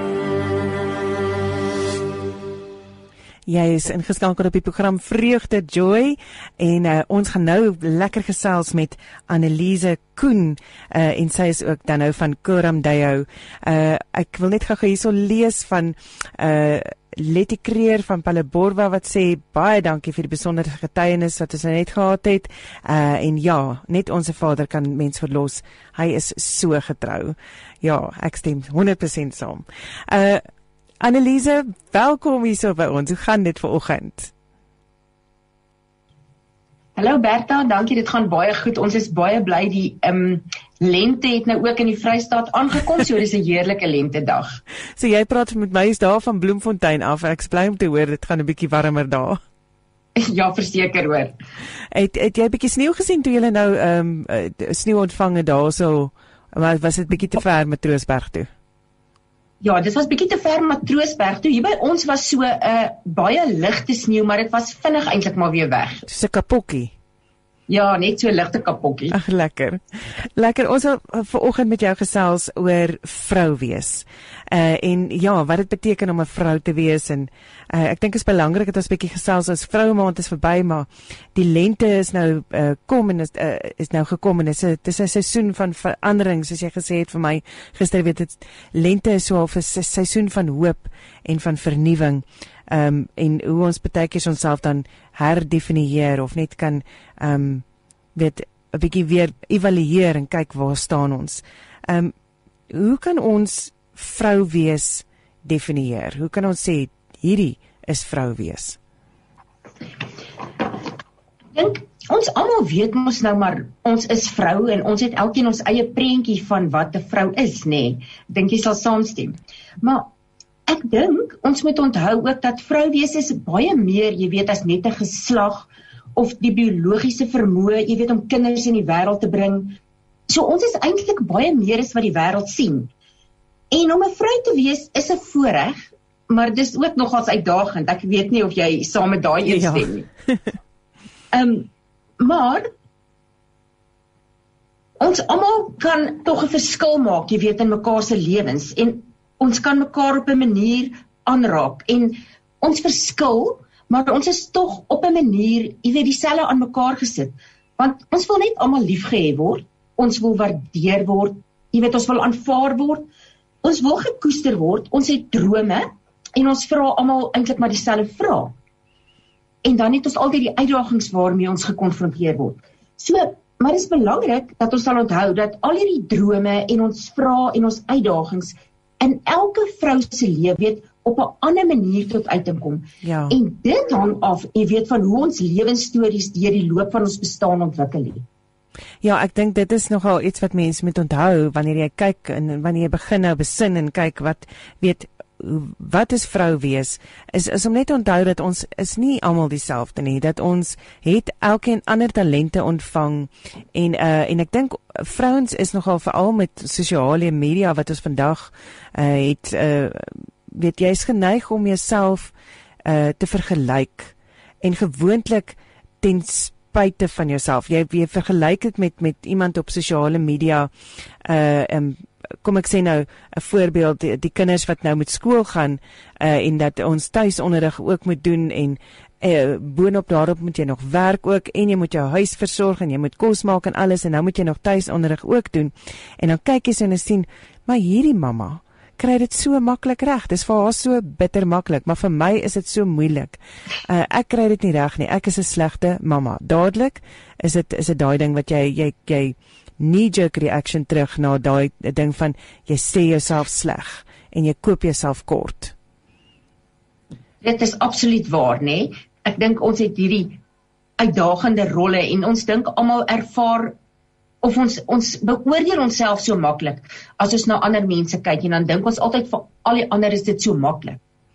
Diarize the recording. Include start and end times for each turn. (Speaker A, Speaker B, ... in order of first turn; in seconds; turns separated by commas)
Speaker A: 3.5-30.4, Speaker A: 31.0-34.3, Speaker B: 37.0-44.6, Speaker A: 45.0-49.4, Speaker B: 50.1-51.3, Speaker A: 51.9-58.5, Speaker B: 59.6-66.0, Speaker A: 66.1-66.9, Speaker B: 67.7-69.2, Speaker A: 69.1-102.1, Speaker A: 102.7-108.8, Speaker B: 111.5-120.1, Speaker B: 120.7-132.9, Speaker B: 133.7-140.1, Speaker A: 139.4-140.3, Speaker B: 141.3-141.7, Speaker B: 142.2-142.7, Speaker B: 145.0-163.1, Speaker B: 163.6-168.5, Speaker B: 169.6-188.2, Speaker A: 183.0-183.3, Speaker A: 189.0-220.7, Speaker A: 221.2-255.7, Speaker B: 257.4-260.4, Speaker B: 261.0-263.8, Speaker B: 264.4-271.0